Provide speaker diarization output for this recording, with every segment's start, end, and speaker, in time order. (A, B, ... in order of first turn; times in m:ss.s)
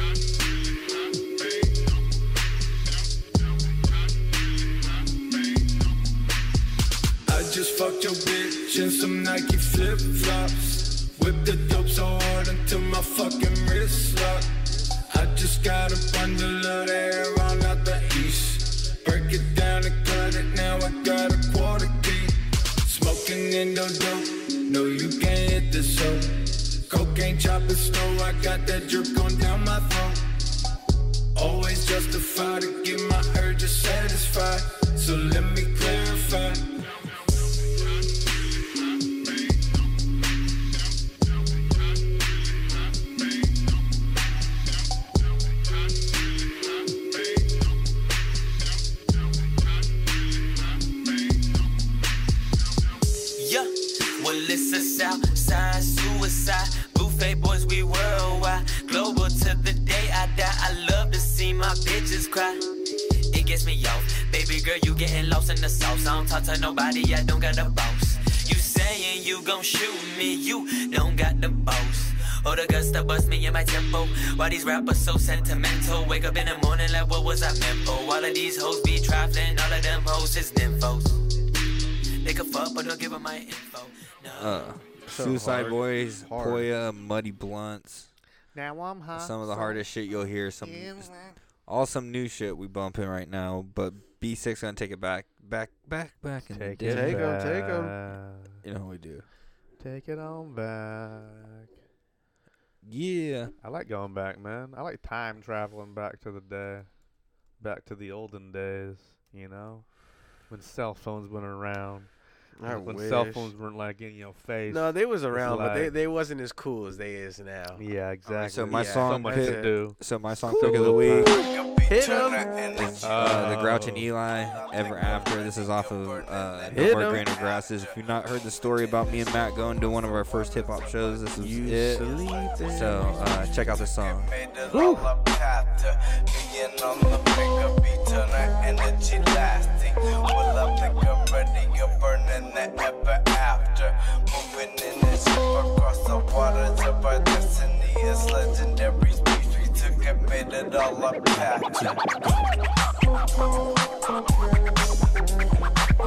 0:07.3-0:14.5 A
0:15.1-0:30.2 A
0:31.3-0:36.7 A
0:53.4-1:02.6 B
1:03.3-1:21.2 B
1:22.2-1:24.6 B
1:24.3-1:28.1 C
1:25.1-1:26.7 D
1:28.5-1:29.8 E
1:29.1-1:31.1 C
1:30.6-1:31.4 E
1:31.6-1:37.3 C
1:36.5-1:38.6 E
1:36.8-1:37.9 D
1:38.6-1:39.2 C
1:39.8-1:41.7 E
1:42.8-1:43.5 C
1:43.6-1:46.9 E
1:47.6-1:49.9 E
1:50.5-1:52.1 E
1:52.6-1:53.5 D
1:52.6-1:55.9 E
1:54.7-1:57.8 D
1:57.8-2:00.0 E
1:58.3-2:01.3 C
1:58.7-1:59.8 D
2:00.4-2:02.5 D
2:00.6-2:01.3 E
2:01.3-2:03.6 F
2:02.8-2:12.1 C
2:03.0-2:04.1 E
2:04.2-2:07.9 F
2:06.7-2:07.2 D
2:08.6-2:11.1 F
2:11.3-2:13.5 D
2:12.7-2:14.3 C
2:13.6-2:32.3 F
2:14.7-2:15.1 D